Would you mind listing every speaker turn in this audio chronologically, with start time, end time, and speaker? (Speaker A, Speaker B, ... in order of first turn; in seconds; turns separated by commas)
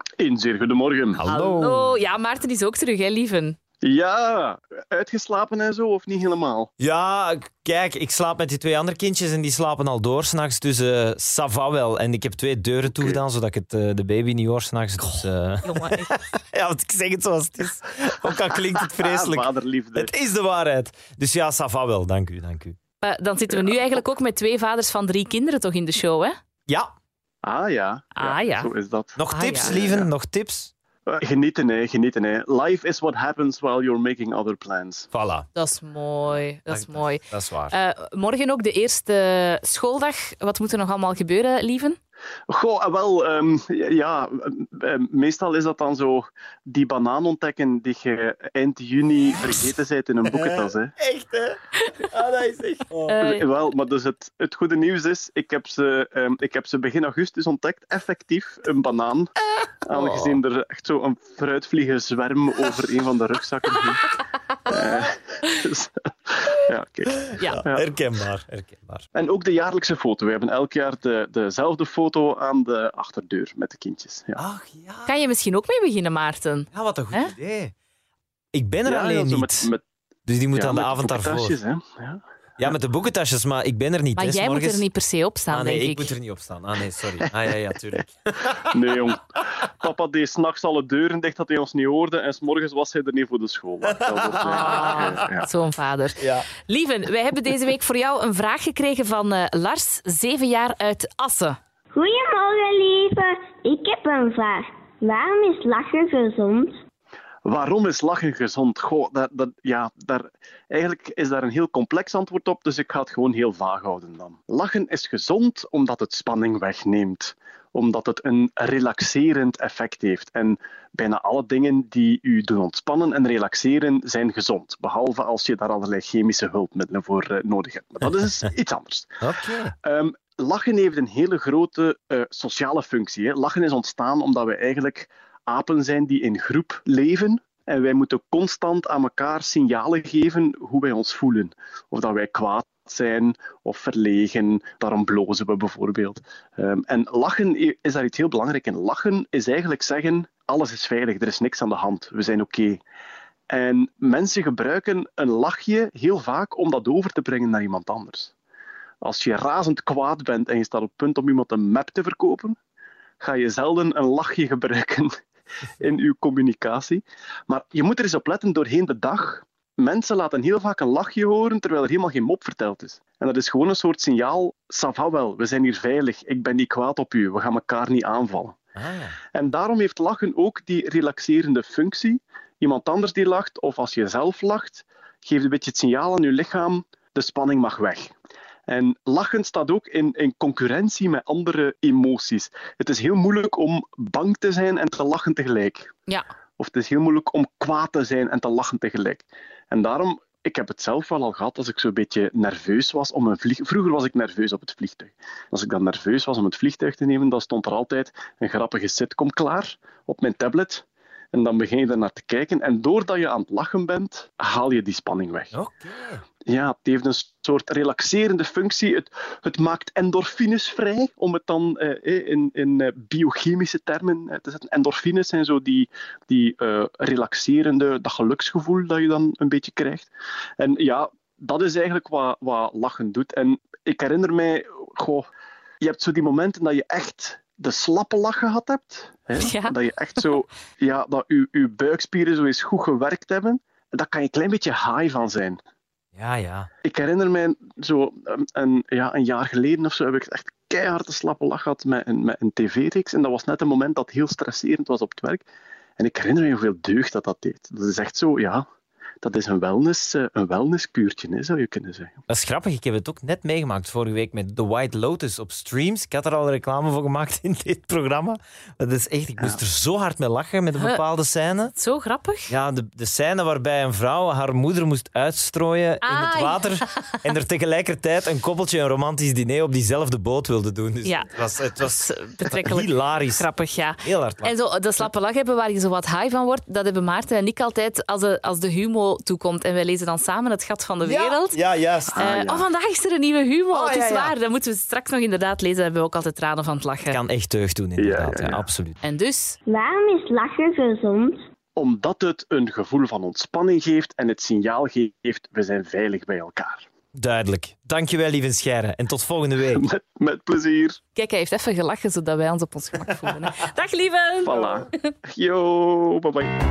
Speaker A: 0.2-1.2, Speaker B: 1.1-2.0, Speaker C: 1.2-3.6, Speaker A: 3.8-6.7, Speaker B: 6.8-22.8, Speaker A: 12.9-13.2, Speaker C: 15.1-16.1, Speaker A: 19.0-20.1, Speaker C: 23.0-26.4, Speaker A: 27.4-30.1, Speaker C: 28.2-28.7, Speaker B: 29.2-30.7, Speaker C: 29.3-29.8, Speaker A: 31.1-35.1, Speaker B: 35.1-35.5, Speaker C: 35.5-42.0, Speaker B: 36.7-37.8, Speaker A: 42.5-50.9, Speaker B: 50.2-53.2, Speaker C: 53.1-53.5, Speaker A: 53.2-64.1, Speaker B: 59.9-60.4, Speaker A: 64.7-67.9, Speaker B: 67.2-69.0, Speaker C: 67.4-67.6, Speaker A: 69.2-74.5, Speaker B: 74.4-75.1, Speaker C: 75.0-77.3, Speaker B: 76.7-77.7, Speaker B: 78.5-79.7, Speaker A: 78.8-79.8, Speaker B: 80.3-81.6, Speaker A: 80.5-82.7, Speaker B: 82.6-84.8, Speaker C: 84.2-86.1, Speaker B: 85.5-88.8, Speaker A: 88.6-95.5, Speaker B: 93.9-95.1, Speaker C: 94.4-101.6, Speaker B: 96.2-96.5, Speaker D: 101.9-106.8, Speaker A: 107.5-129.2, Speaker B: 129.2-129.7, Speaker A: 129.8-152.8, Speaker A: 153.5-158.3, Speaker A: 159.0-162.6, Speaker A: 163.2-165.1, Speaker A: 165.8-178.6, Speaker B: 178.8-179.2, Speaker A: 179.3-188.1, Speaker A: 188.7-195.9, Speaker A: 196.6-215.5, Speaker B: 215.5-216.2, Speaker A: 216.5-235.3, Speaker A: 235.8-245.6, Speaker C: 239.4-239.8, Speaker B: 246.2-246.7, Speaker A: 246.8-255.4, Speaker A: 256.0-258.6, Speaker A: 259.2-262.2, Speaker B: 262.3-271.7, Speaker C: 270.8-271.0, Speaker C: 271.7-272.5, Speaker B: 272.5-283.5, Speaker C: 276.0-277.2, Speaker C: 281.0-291.6, Speaker B: 284.0-284.5, Speaker B: 291.0-292.2, Speaker A: 292.1-292.7, Speaker C: 292.1-297.2, Speaker B: 293.7-294.3, Speaker B: 297.1-299.0, Speaker A: 298.0-298.7, Speaker C: 299.0-299.6, Speaker D: 299.7-301.4, Speaker A: 301.8-306.9, Speaker B: 307.1-309.9, Speaker A: 309.7-311.0, Speaker C: 311.1-315.1, Speaker A: 314.4-316.5